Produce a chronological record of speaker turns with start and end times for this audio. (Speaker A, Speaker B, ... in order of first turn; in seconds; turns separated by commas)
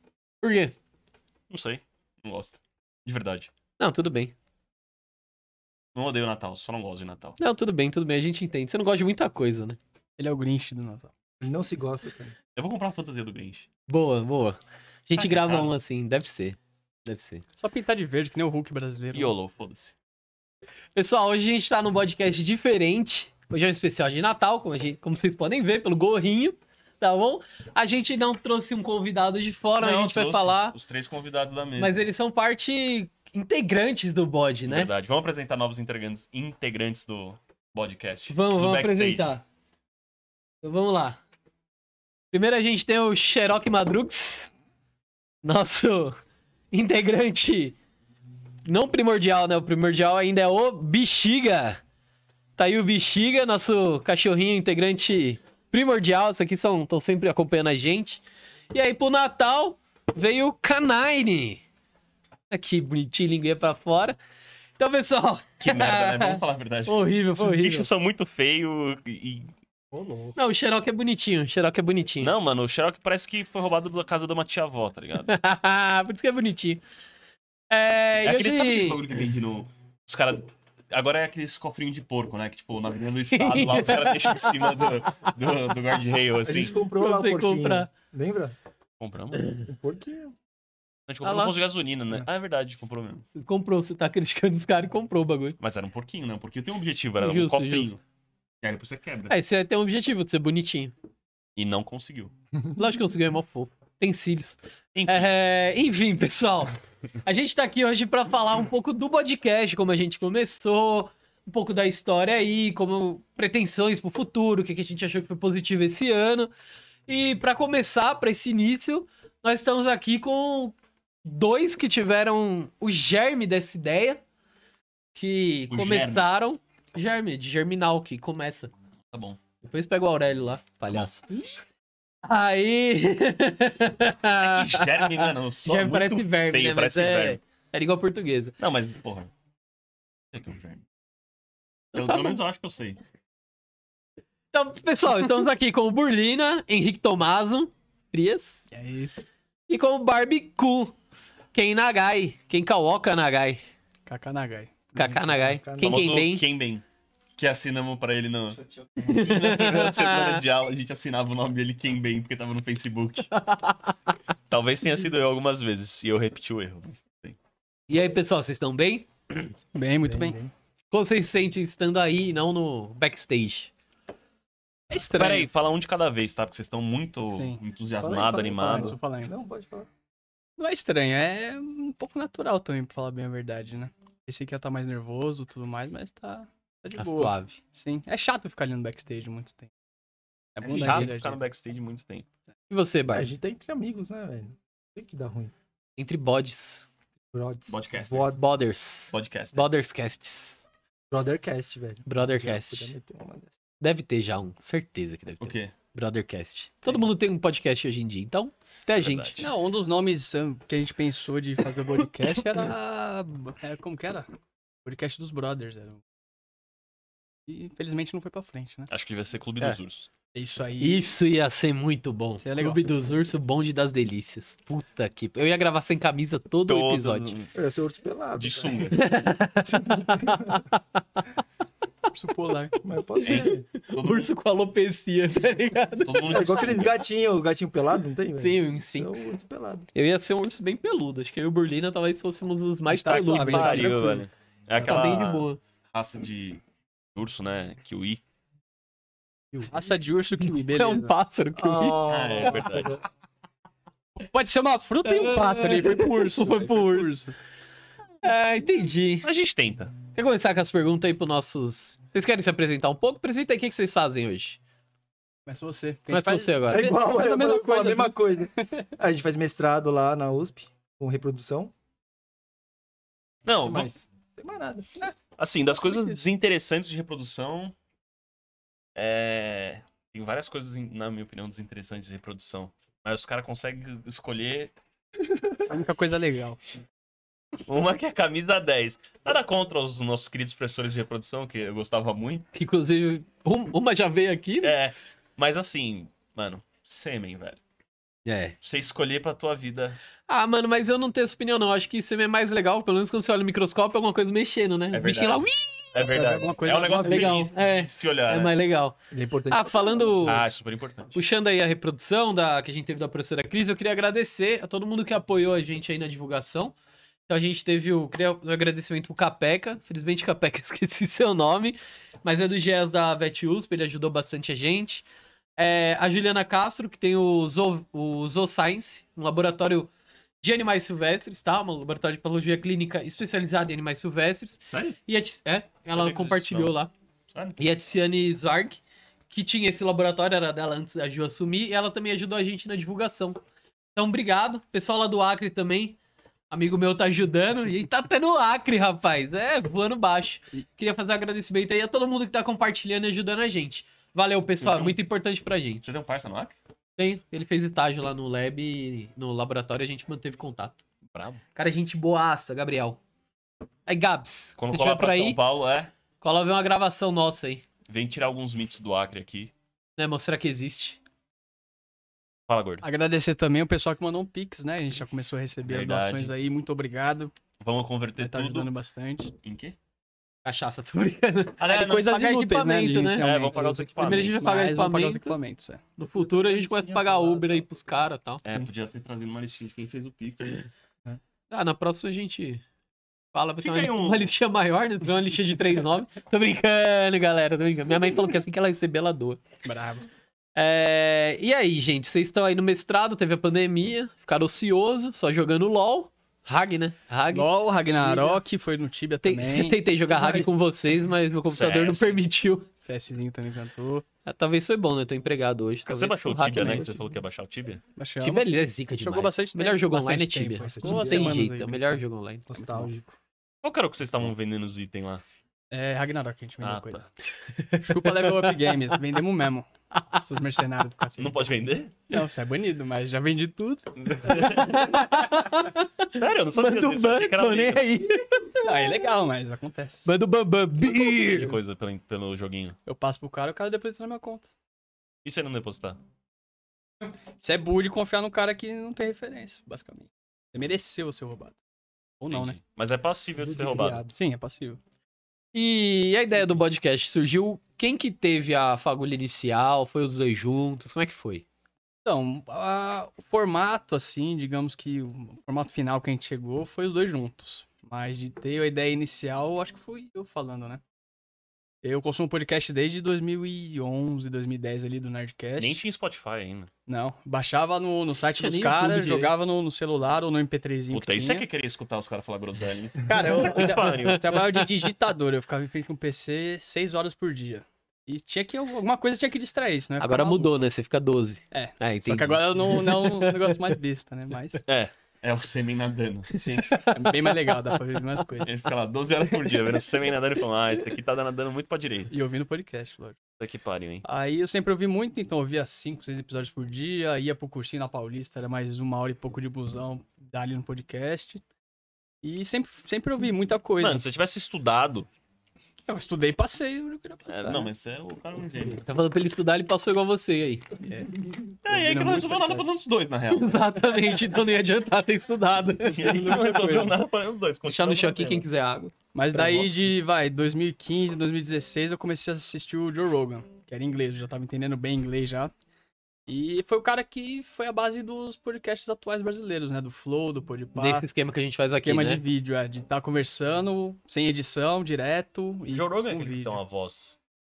Speaker A: 0.4-0.8, Speaker B: 1.5-3.5, Speaker A: 3.8-4.3, Speaker B: 6.0-7.4, Speaker A: 7.4-9.8, Speaker C: 10.2-11.1, Speaker D: 11.4-12.3, Speaker B: 12.6-13.7, Speaker A: 13.9-17.4, Speaker B: 15.2-15.7, Speaker C: 17.6-19.3, Speaker B: 19.1-19.9, Speaker A: 21.0-30.8, Speaker B: 29.8-32.0, Speaker A: 31.8-34.9, Speaker B: 34.7-39.3, Speaker A: 38.3-39.4, Speaker A: 40.6-41.2, Speaker A: 42.3-44.5, Speaker A: 45.4-46.1, Speaker A: 46.7-47.8, Speaker A: 48.7-51.8, Speaker A: 52.6-58.2, Speaker A: 58.7-61.6, Speaker A: 62.5-64.2, Speaker A: 64.8-67.9, Speaker B: 65.6-69.5, Speaker D: 69.9-70.4, Speaker A: 70.4-72.3, Speaker B: 72.2-75.3, Speaker A: 75.3-76.8, Speaker A: 77.7-79.0, Speaker B: 78.2-86.8, Speaker A: 83.3-84.8, Speaker D: 86.4-88.5, Speaker A: 87.0-87.9, Speaker B: 89.0-89.6, Speaker D: 89.7-90.3, Speaker B: 91.1-93.2, Speaker A: 91.2-91.5, Speaker A: 93.3-95.6, Speaker B: 95.6-98.0, Speaker A: 97.2-98.0, Speaker B: 98.6-99.3, Speaker A: 99.3-100.9, Speaker B: 101.6-102.3, Speaker A: 102.8-116.5, Speaker B: 105.0-105.3, Speaker A: 117.1-124.2, Speaker A: 125.2-128.7, Speaker B: 125.7-126.2, Speaker B: 129.1-129.4, Speaker A: 129.6-131.5, Speaker A: 132.2-138.6, Speaker B: 134.4-137.4, Speaker B: 138.6-139.3, Speaker B: 140.3-140.8, Speaker B: 141.9-143.0, Speaker A: 141.9-142.4, Speaker A: 144.5-148.7, Speaker C: 148.7-149.1, Speaker A: 149.7-150.9, Speaker A: 151.5-153.6, Speaker C: 154.1-155.4, Speaker A: 154.9-156.4, Speaker D: 155.2-156.1, Speaker B: 155.8-156.8, Speaker B: 157.4-163.3, Speaker A: 159.0-160.4, Speaker A: 163.3-163.9, Speaker B: 164.5-167.4, Speaker A: 167.9-169.1, Speaker C: 169.7-170.4, Speaker D: 170.0-170.5, Speaker A: 170.9-173.7, Speaker C: 174.9-175.5, Speaker B: 175.1-179.0, Speaker C: 177.3-177.6, Speaker D: 178.0-179.9, Speaker C: 178.6-179.4, Speaker C: 180.6-189.7, Speaker A: 187.0-187.6, Speaker C: 190.6-191.4, Speaker B: 190.6-192.3, Speaker A: 190.8-191.1, Speaker A: 192.7-193.3, Speaker D: 193.1-195.5, Speaker A: 196.0-196.9, Speaker D: 197.3-198.5, Speaker B: 197.7-198.4, Speaker A: 198.4-200.6, Speaker B: 199.1-199.7, Speaker D: 201.1-203.5, Speaker A: 202.1-202.9, Speaker A: 203.8-209.3, Speaker B: 205.4-205.7, Speaker B: 209.0-209.5, Speaker C: 209.4-214.3, Speaker C: 214.8-216.0, Speaker C: 217.5-218.9, Speaker B: 218.9-220.1, Speaker C: 220.3-221.1, Speaker A: 220.8-227.3, Speaker C: 222.4-222.8, Speaker B: 226.7-227.5, Speaker D: 227.6-228.9, Speaker B: 228.4-228.9, Speaker A: 228.9-230.8, Speaker D: 229.7-230.6, Speaker C: 232.1-232.8, Speaker D: 232.8-233.7, Speaker B: 233.2-234.3, Speaker A: 233.8-236.6, Speaker B: 236.0-237.0, Speaker D: 236.2-239.9, Speaker A: 238.4-239.3, Speaker A: 239.9-244.0, Speaker C: 242.9-244.3, Speaker B: 243.1-246.6, Speaker A: 244.8-245.6, Speaker B: 247.2-248.2, Speaker D: 249.5-249.8, Speaker C: 249.7-251.1, Speaker A: 250.7-252.0, Speaker D: 251.6-253.0, Speaker B: 252.1-253.0, Speaker C: 254.2-257.4, Speaker A: 255.1-257.1, Speaker A: 258.2-259.3, Speaker B: 259.2-259.9, Speaker A: 260.1-264.6, Speaker C: 265.5-268.8, Speaker A: 266.1-267.0, Speaker D: 266.7-271.7, Speaker B: 273.4-273.9, Speaker D: 273.6-275.1, Speaker B: 275.4-277.7, Speaker B: 278.9-284.7, Speaker C: 285.7-286.6, Speaker B: 287.7-292.5, Speaker A: 292.5-294.7, Speaker B: 294.6-297.6, Speaker A: 298.3-298.6, Speaker B: 298.6-300.0, Speaker A: 300.3-306.0, Speaker B: 304.9-308.5, Speaker C: 306.1-307.5, Speaker A: 307.0-309.0, Speaker D: 309.1-310.2, Speaker A: 309.5-310.4, Speaker B: 310.2-311.1, Speaker A: 311.1-316.7, Speaker A: 317.3-325.1, Speaker A: 325.6-329.9, Speaker A: 330.4-336.9, Speaker B: 334.7-335.0, Speaker B: 335.9-336.7, Speaker B: 337.3-337.6, Speaker A: 337.6-338.8, Speaker A: 339.3-343.4, Speaker A: 344.0-346.0, Speaker A: 346.5-355.8, Speaker B: 354.6-355.0, Speaker B: 355.8-356.6, Speaker A: 357.0-360.8, Speaker B: 361.1-361.4, Speaker A: 361.6-363.0, Speaker A: 363.9-365.4, Speaker B: 364.6-365.9, Speaker A: 366.2-367.6, Speaker B: 367.9-369.5, Speaker A: 370.0-371.0, Speaker B: 372.5-372.8, Speaker C: 372.8-377.3, Speaker B: 375.6-376.4, Speaker B: 377.6-378.7, Speaker C: 378.2-379.3, Speaker B: 379.4-379.8, Speaker A: 380.4-383.3, Speaker B: 381.6-382.2, Speaker C: 381.7-385.8, Speaker B: 383.2-384.4, Speaker A: 384.0-385.4, Speaker A: 386.0-388.4, Speaker D: 386.1-387.8, Speaker B: 388.4-390.7, Speaker A: 391.5-392.6, Speaker A: 393.3-399.4, Speaker B: 393.6-394.3, Speaker C: 399.6-400.1, Speaker A: 400.6-408.4, Speaker C: 407.3-410.5, Speaker A: 409.2-412.7, Speaker B: 411.5-412.2, Speaker C: 412.8-414.1, Speaker A: 414.2-416.9, Speaker B: 415.9-417.8, Speaker C: 416.5-416.9, Speaker C: 418.0-418.5, Speaker A: 418.2-422.5, Speaker C: 419.0-422.0, Speaker D: 420.6-421.4, Speaker D: 422.5-423.1, Speaker B: 423.6-425.2, Speaker C: 425.7-427.0, Speaker B: 426.6-427.0, Speaker A: 427.5-428.6, Speaker C: 427.8-429.7, Speaker A: 429.9-430.2, Speaker C: 430.2-431.4, Speaker B: 431.2-432.0, Speaker C: 432.1-434.6, Speaker B: 434.0-434.9, Speaker A: 434.3-439.1, Speaker B: 436.1-438.0, Speaker C: 438.6-440.1, Speaker A: 440.1-441.5, Speaker B: 440.9-442.8, Speaker C: 442.9-444.5, Speaker B: 445.2-446.0, Speaker C: 447.4-451.6, Speaker B: 452.2-454.0, Speaker C: 452.2-452.6, Speaker D: 453.4-454.1, Speaker C: 454.1-454.8, Speaker A: 455.5-461.4, Speaker C: 462.1-470.8, Speaker C: 471.8-475.8, Speaker B: 475.6-476.7, Speaker C: 476.9-481.5, Speaker A: 478.4-479.3, Speaker B: 480.9-484.5, Speaker C: 483.1-490.6, Speaker A: 490.0-493.8, Speaker C: 491.5-494.6, Speaker B: 494.7-496.3, Speaker C: 496.3-498.5, Speaker A: 496.6-497.6, Speaker B: 498.4-502.1, Speaker C: 502.1-503.2, Speaker B: 503.4-504.1, Speaker C: 504.0-511.4, Speaker C: 512.2-514.1, Speaker B: 513.8-515.1, Speaker C: 515.9-517.7, Speaker B: 517.3-518.8, Speaker A: 518.8-520.7, Speaker C: 520.8-522.8, Speaker B: 521.6-523.6, Speaker A: 523.4-526.4, Speaker B: 525.9-528.5, Speaker C: 526.0-527.0, Speaker A: 527.6-528.9, Speaker C: 529.1-535.5, Speaker B: 529.3-529.9, Speaker C: 536.3-541.1, Speaker A: 540.8-542.2, Speaker C: 541.8-546.6, Speaker B: 545.7-547.2